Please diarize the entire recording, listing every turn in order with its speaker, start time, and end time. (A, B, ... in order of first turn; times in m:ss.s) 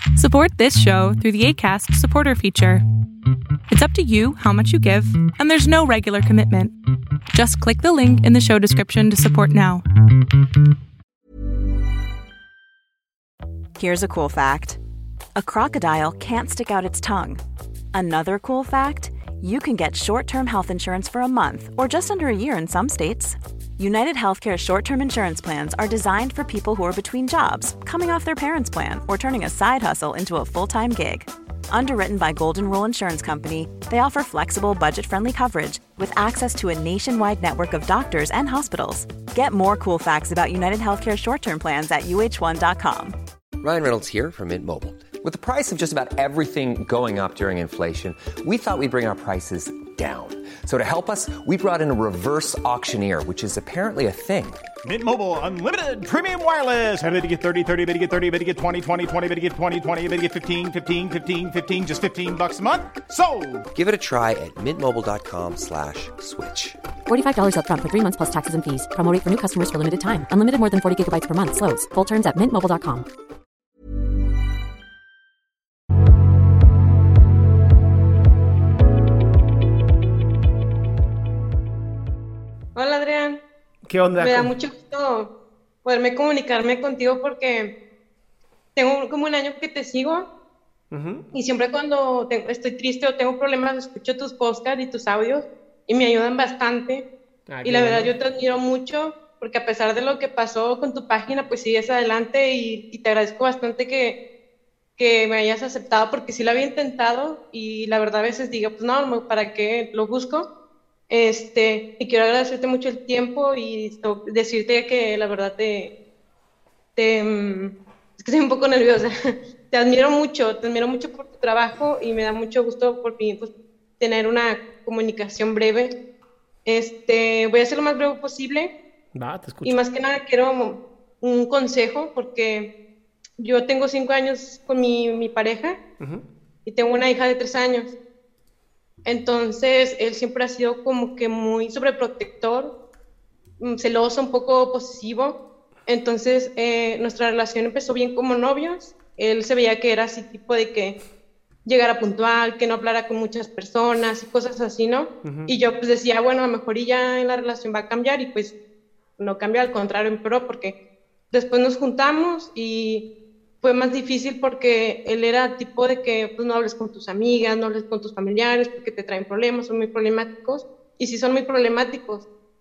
0:00.2-0:02.8 A
0:03.7-0:06.8 A
0:07.3-0:09.8 A
0:13.8-0:14.8 B
0:15.4-0:17.4 B
0:17.9-0:43.2 B
0:43.6-0:54.6 C
0:54.8-1:03.7 D
1:03.7-1:06.8 C
1:07.1-1:13.0 E
1:22.8-1:23.4 F
1:23.9-1:24.5 G
1:24.2-1:25.3 F
1:25.8-1:27.8 F
1:28.8-1:30.3 F
1:30.9-1:31.2 G
1:31.3-1:37.1 F
1:37.5-1:38.1 G
1:37.6-1:44.2 F
1:45.0-1:50.5 F
1:51.1-1:55.9 F
1:57.0-1:59.1 F
1:59.7-2:05.9 F
2:06.6-2:08.7 F
2:09.2-2:09.8 G
2:09.6-2:12.7 F
2:13.4-2:15.8 F
2:16.7-2:18.0 F
2:19.0-2:22.8 F
2:23.6-2:31.0 F
2:31.6-2:38.6 F
2:35.2-2:35.5 G
2:39.2-2:40.8 F
2:41.3-2:43.1 F
2:43.6-2:52.3 F